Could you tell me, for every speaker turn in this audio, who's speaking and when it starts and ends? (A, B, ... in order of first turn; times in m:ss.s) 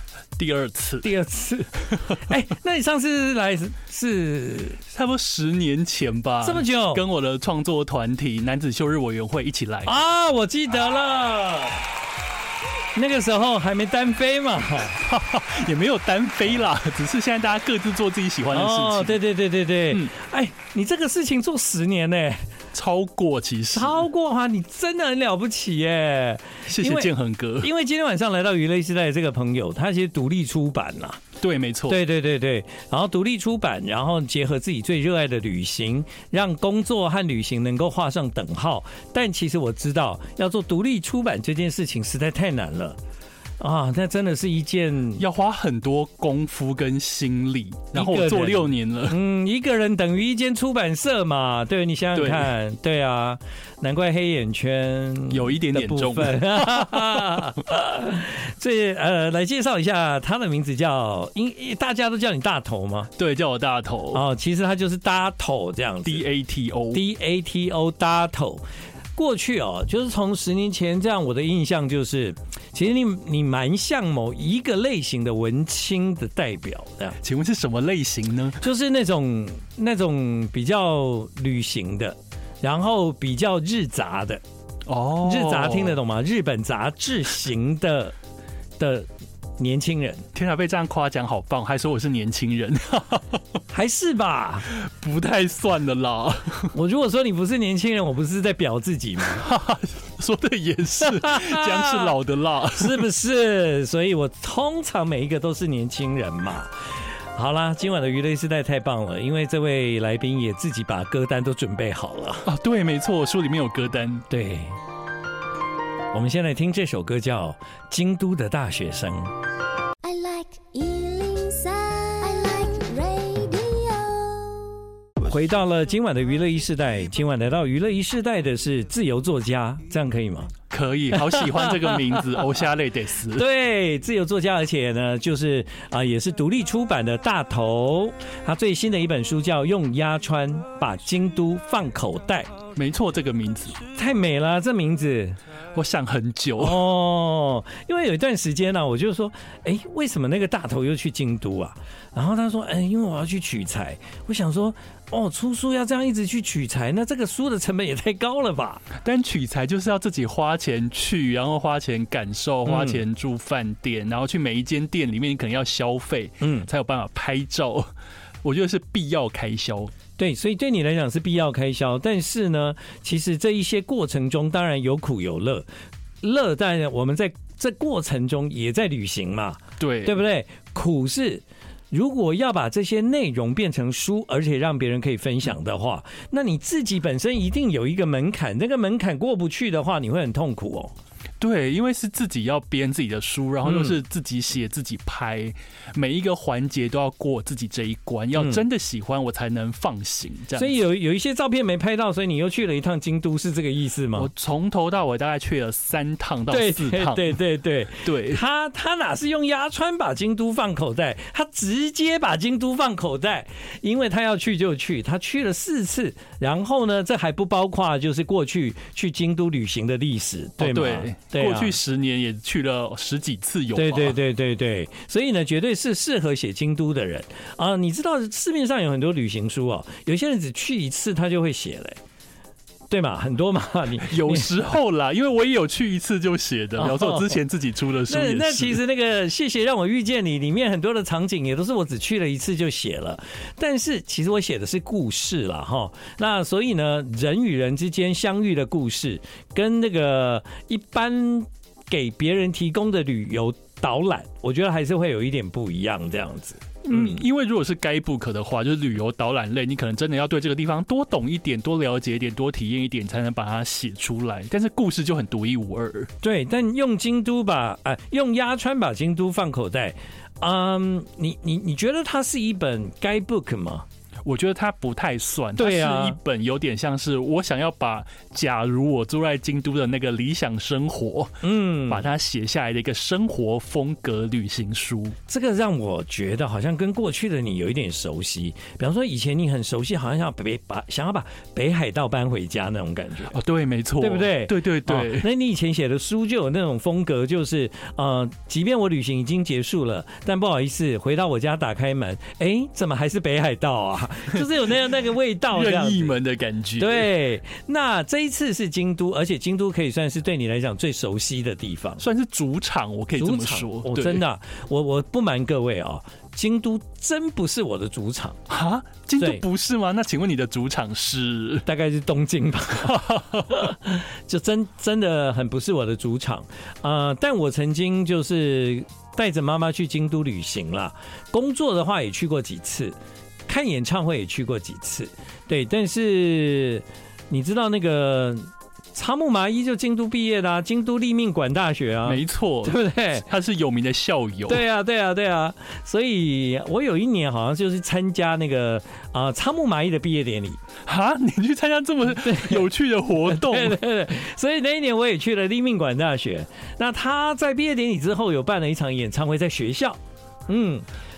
0:00.4-0:01.1 A
0:01.0-0:04.8 B
0:04.9-0:10.0 A
0:06.4-0:07.0 B
0:09.9-0:11.8 B
0:13.0-0:15.0 B
0:14.9-0:19.2 A
0:18.5-0:22.5 B
0:22.7-0:24.0 A
0:23.7-0:31.2 B
0:26.7-0:27.7 A
0:31.4-0:32.0 A
0:31.9-0:43.0 B
0:43.6-0:45.2 B
0:45.2-0:49.2 A
0:47.9-1:03.1 B
0:52.2-0:52.5 A
0:55.3-0:57.5 A
1:03.2-1:04.2 A
1:04.1-1:06.2 B
1:06.0-1:07.0 A
1:06.9-1:08.6 B
1:09.2-1:17.2 B
1:17.2-1:18.6 A
1:18.6-1:24.4 B
1:24.9-1:26.0 A
1:25.2-1:28.2 B
1:28.8-1:30.2 B
1:30.3-1:33.4 A
1:33.7-1:34.7 B
1:34.7-1:36.7 A
1:36.7-1:39.5 B
1:39.2-1:43.0 A
1:41.0-1:42.1 B
1:42.8-1:46.7 B
1:47.4-1:52.5 B
1:52.5-1:54.3 A
1:54.3-1:54.8 B
1:56.1-1:59.3 B
2:00.0-2:04.8 C
2:05.2-2:10.5 B
2:10.7-2:13.4 A
2:11.1-2:12.4 B
2:13.3-2:22.5 B
2:22.8-2:23.8 A
2:24.0-2:25.4 B
2:25.7-2:26.8 A
2:26.6-2:38.9 B
2:39.0-2:47.9 A
2:42.7-2:43.0 B
2:46.4-2:46.7 B
2:48.4-2:49.9 A
2:50.2-2:55.7 B
2:56.2-3:10.9 B
2:59.8-3:00.2 A
3:11.4-3:20.8 A
3:13.6-3:14.0 B
3:20.6-3:24.3 B
3:24.2-3:27.3 A
3:26.5-3:41.8 B
3:28.0-3:28.4 A
3:40.6-3:44.2 A
3:43.8-3:52.0 B
3:52.9-3:54.5 B
3:54.0-3:58.8 A
3:56.8-3:57.4 B
3:58.1-4:17.2 B
4:16.8-4:26.1 A
4:26.2-4:33.9 B
4:34.2-4:45.2 A
4:35.6-4:36.2 B
4:41.4-4:42.1 B
4:45.3-4:53.3 B
4:53.3-4:55.3 A
4:54.0-5:06.2 B
5:05.5-5:07.1 A
5:06.8-5:12.0 B
5:12.0-5:14.2 A
5:13.2-5:18.4 B
5:18.5-5:21.6 A
5:19.2-5:19.4 B
5:21.6-5:33.0 B
5:22.8-5:23.6 A
5:33.5-5:43.3 B
5:42.0-5:44.6 A
5:44.5-5:50.6 B
5:50.8-5:53.8 A
5:52.2-5:52.7 B
5:53.2-6:00.9 B